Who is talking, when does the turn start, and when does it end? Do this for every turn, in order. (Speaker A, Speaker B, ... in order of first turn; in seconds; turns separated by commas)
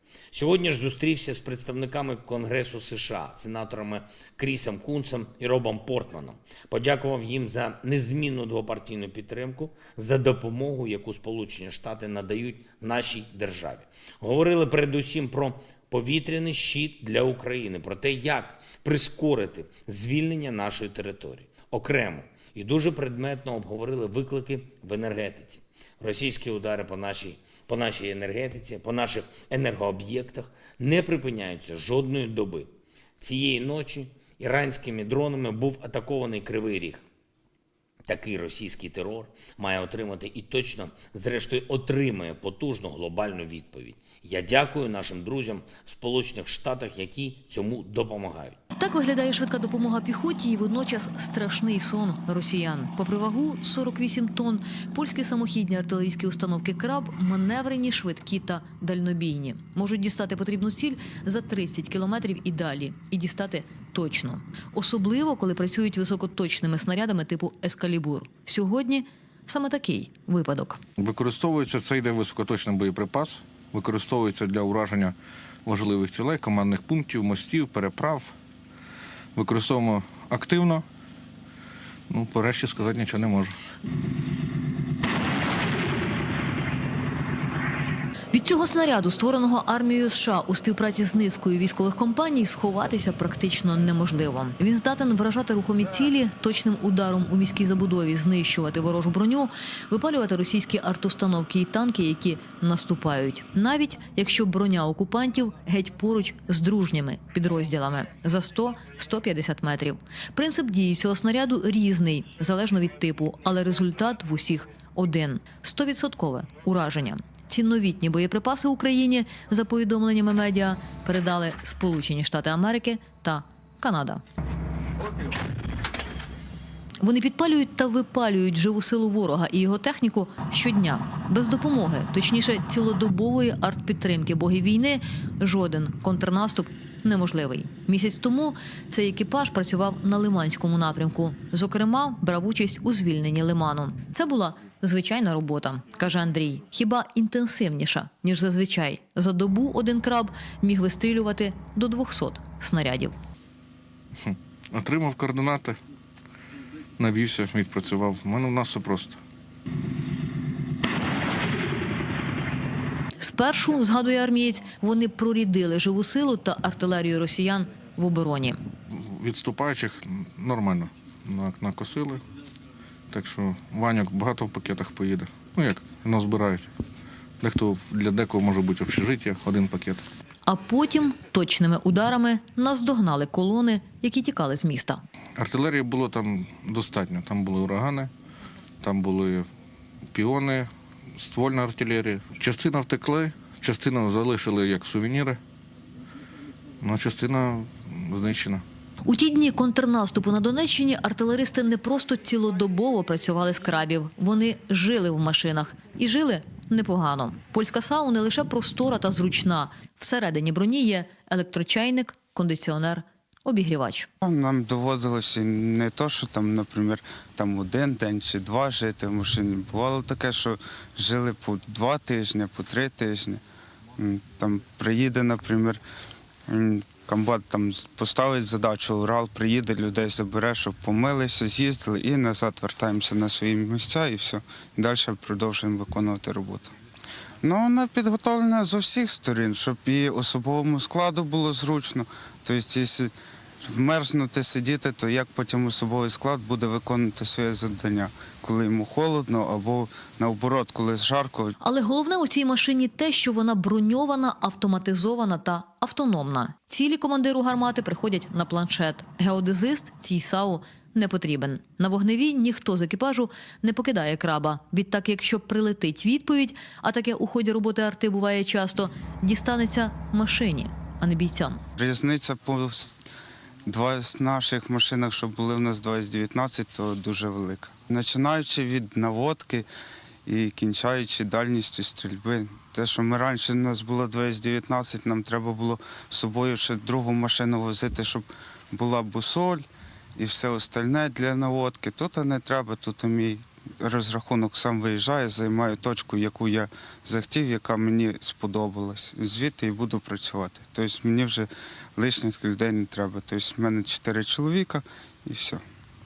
Speaker A: 0.4-32.7, Speaker A: 33.2-37.0, Speaker A: 38.1-48.5, Speaker B: 48.8-70.8, Speaker C: 71.0-78.3, Speaker C: 79.3-80.8, Speaker C: 82.1-83.5, Speaker B: 88.3-124.2, Speaker B: 127.0-153.2, Speaker C: 154.2-155.8, Speaker C: 157.0-159.2, Speaker B: 163.2-168.6, Speaker C: 168.9-172.2, Speaker C: 173.1-176.7, Speaker C: 177.4-180.0, Speaker B: 180.4-185.0, Speaker C: 185.4-188.1, Speaker C: 188.8-189.5, Speaker C: 190.1-195.4, Speaker C: 196.8-198.6, Speaker B: 199.1-214.1, Speaker D: 214.2-223.4, Speaker D: 224.0-225.8, Speaker D: 226.5-236.7, Speaker D: 237.4-243.1, Speaker D: 243.6-251.5, Speaker B: 251.6-271.6, Speaker D: 271.8-273.0, Speaker D: 273.7-279.7, Speaker D: 280.2-289.6, Speaker D: 290.2-305.6